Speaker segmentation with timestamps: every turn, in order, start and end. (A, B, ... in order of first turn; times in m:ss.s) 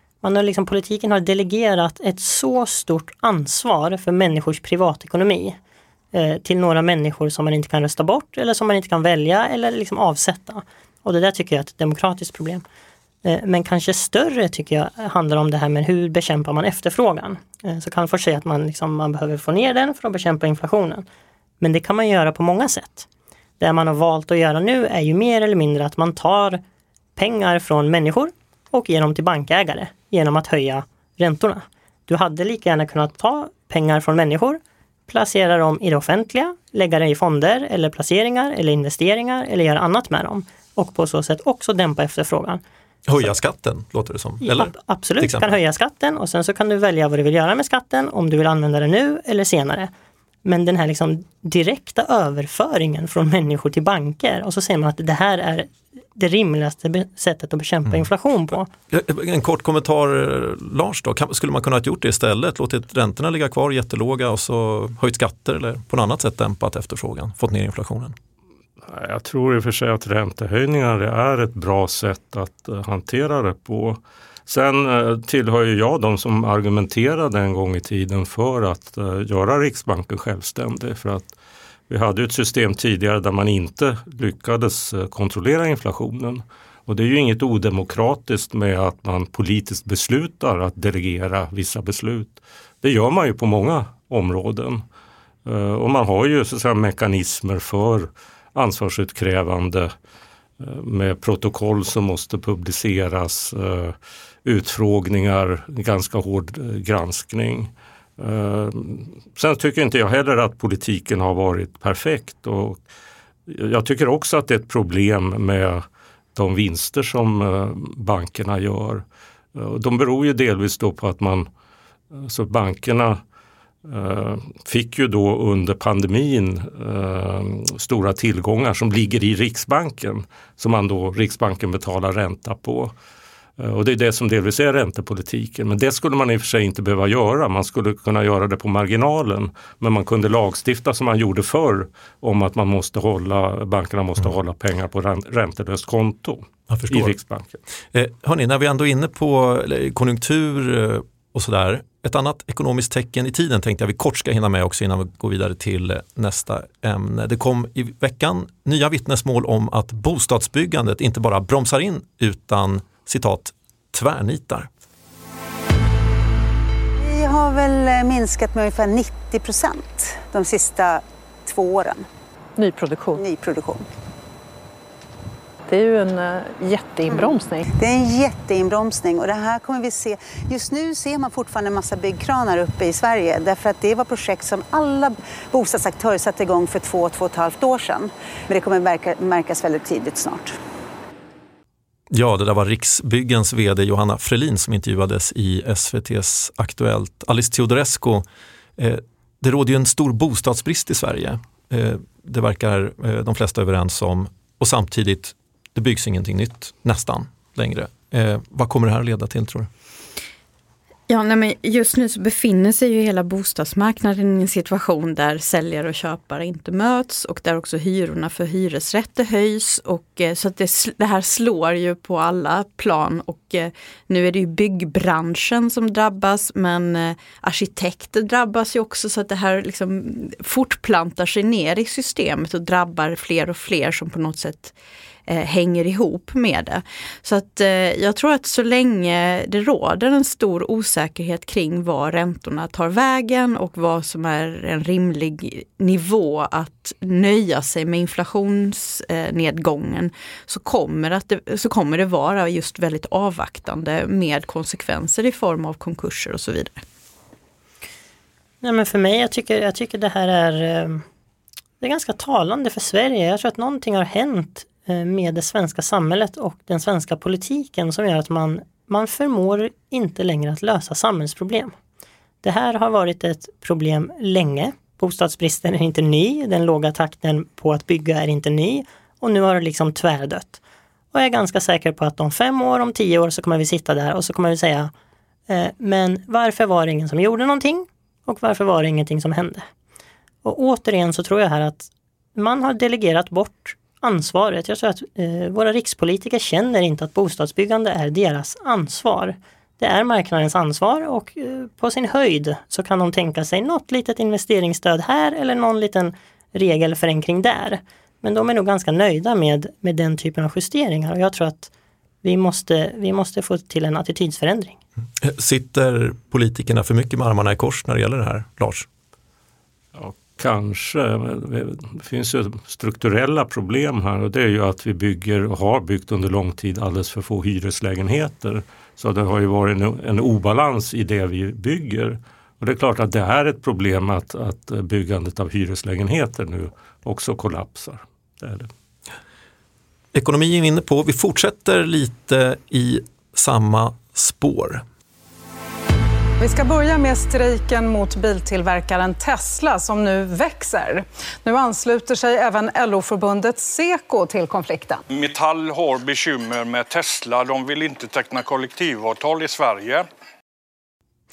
0:00.2-0:05.6 A
0:06.1-0:12.6 A
0:13.2-0:21.0 A
0:21.6-0:23.1 A
0:23.6-0:26.6 A
0:27.2-0:42.6 A
0:43.0-0:45.6 B
0:44.4-0:49.9 A
0:50.4-0:58.7 A
0:58.9-1:08.1 B
1:08.9-1:21.3 C
1:21.9-1:34.8 C
1:35.4-1:39.9 C
1:40.6-1:52.8 C
1:53.5-1:59.0 C
1:59.5-2:01.5 C
2:02.1-2:03.2 C
2:03.8-2:12.9 C
2:13.6-2:27.6 C
2:26.7-2:27.1 B
2:27.9-2:44.7 B
2:47.0-2:52.0 D
2:52.6-2:53.2 E
2:53.2-2:53.8 D
2:55.7-2:57.7 E
2:57.1-3:10.5 D
3:12.1-3:18.2 B
3:18.8-3:29.7 B
3:31.1-3:54.7 F
3:55.3-4:16.8 F
4:18.6-4:21.0 A
4:21.8-4:31.7 A
4:32.4-4:40.6 A
4:41.1-4:44.9 A
4:45.5-4:49.7 A
4:50.4-5:11.7 A
5:12.2-5:14.8 A
5:15.2-5:18.9 B
5:19.9-5:38.7 C
5:40.1-5:44.8 B
5:46.4-5:55.0 G
5:55.1-6:00.0 H